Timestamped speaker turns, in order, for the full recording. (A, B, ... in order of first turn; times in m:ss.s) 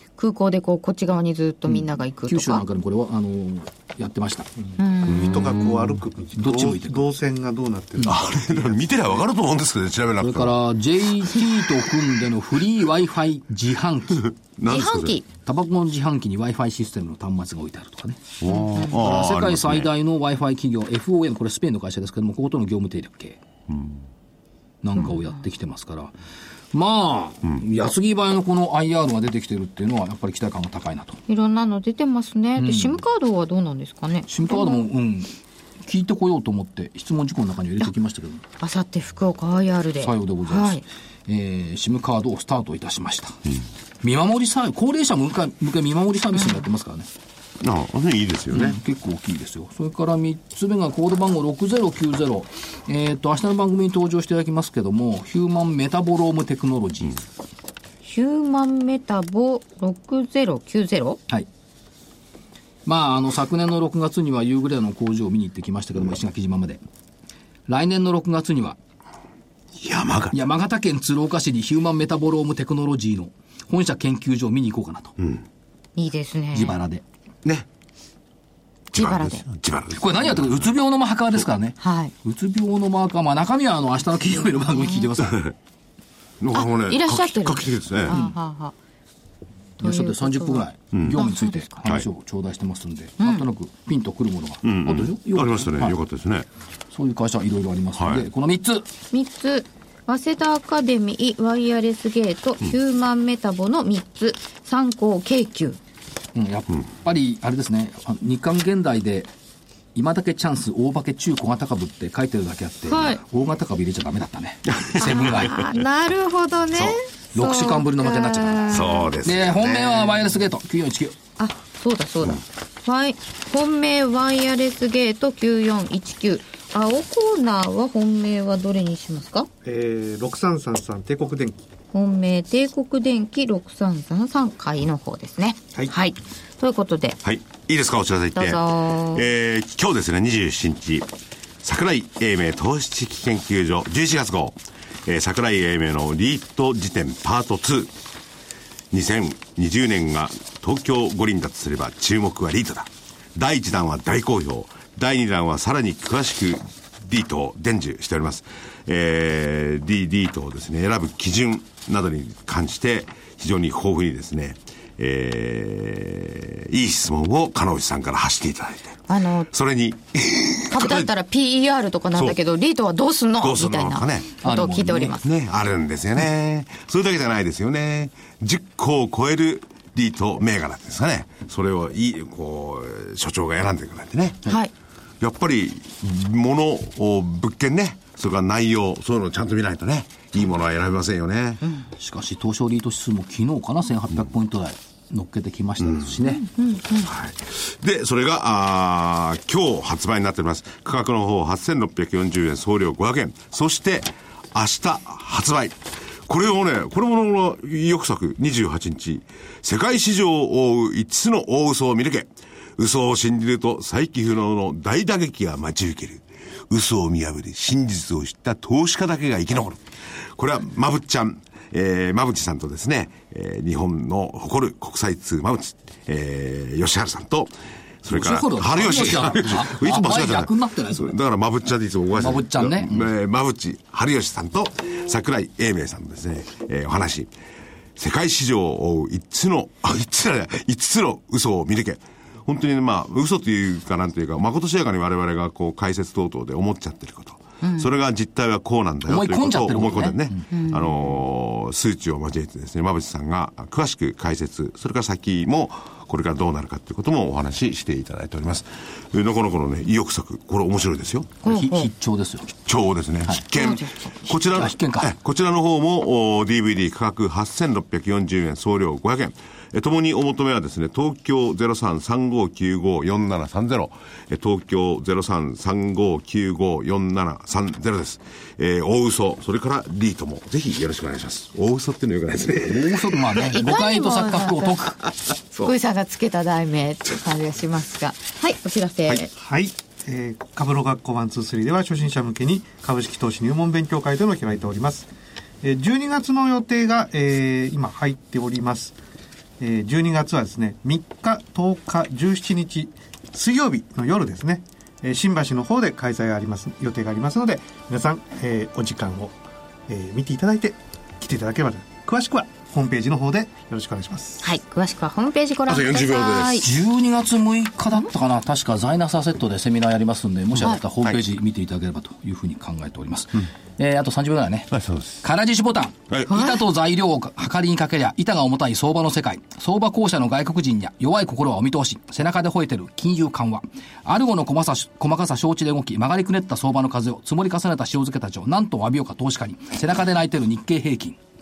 0:00.2-0:02.6 A
0:01.7-0:04.5 B
0:04.7-0:09.2 C
0:04.8-0:05.8 A
0:05.1-0:05.8 D
0:06.4-0:07.1 B
0:08.0-0:10.6 D
0:10.2-0:14.3 B
0:14.2-0:15.2 D
0:14.7-0:15.3 A
0:15.4-0:18.2 B
0:18.4-0:19.9 D
0:18.5-0:19.0 A
0:18.8-0:23.4 B
0:23.7-0:24.0 D
0:24.8-0:26.1 B
0:25.0-0:25.4 A
0:26.7-0:31.2 B
0:31.3-0:34.9 A
0:32.6-0:33.0 B
0:34.3-0:35.3 B
0:35.8-0:38.4 B
0:38.6-0:40.8 A
0:40.0-0:43.4 B
0:44.0-0:47.1 B
0:46.4-0:46.6 A
0:47.6-0:48.8 D
0:48.5-0:57.2 B
0:58.0-1:01.2 A
1:02.9-1:06.8 B
1:07.7-1:08.8 B
1:09.8-1:10.4 D
1:10.3-1:15.2 B
1:15.2-1:15.4 D
1:16.0-1:16.8 A
1:16.5-1:17.0 B
1:18.9-1:19.5 A
1:18.9-1:20.7 D
1:20.0-1:25.4 B
1:21.8-1:22.1 A
1:24.7-1:25.1 A
1:26.4-1:28.2 D
1:26.5-1:28.8 A
1:28.1-1:28.4 B
1:29.8-1:31.9 A
1:29.8-1:36.0 B
1:30.9-1:31.2 D
1:33.2-1:33.5 A
1:34.6-1:36.5 D
1:36.9-1:38.9 B
1:38.0-1:38.3 D
1:39.1-1:45.8 A
1:46.4-1:49.3 B
1:50.0-1:55.7 B
1:52.9-1:53.2 A
1:54.9-1:55.8 D
1:55.0-1:59.1 A
1:57.3-2:01.2 B
1:58.7-2:00.3 D
2:01.4-2:09.5 A
2:09.6-2:11.7 C
2:11.9-2:17.2 A
2:17.2-2:21.1 D
2:18.4-2:19.2 A
2:21.6-2:27.9 D
2:28.9-2:51.1 D
2:49.1-2:49.5 A
2:50.7-2:55.3 A
2:53.4-2:54.4 D
2:54.4-2:55.2 B
2:55.2-3:04.4 D
3:04.5-3:04.7 A
3:05.2-3:11.6 D
3:12.0-3:16.4 B
3:15.8-3:16.1 D
3:16.2-3:17.1 A
3:17.0-3:57.3 D
3:48.1-3:51.2 B
3:52.2-3:53.1 B
3:58.0-4:21.3 D
4:07.6-4:07.9 A
4:09.1-4:10.5 B
4:10.5-4:11.0 A
4:21.4-4:21.9 A
4:21.4-4:22.5 B
4:22.6-4:43.6 D
4:23.5-4:24.1 A
4:24.3-4:25.1 B
4:42.5-4:45.0 B
4:43.4-4:45.0 A
4:45.5-4:49.3 A
4:49.3-4:55.1 C
4:55.6-4:59.0 C
4:59.6-5:09.4 C
5:09.9-5:14.4 C
5:14.4-5:16.7 A
5:15.7-5:16.7 D
5:16.6-5:41.2 B
5:24.7-5:25.2 D
5:26.3-5:26.6 A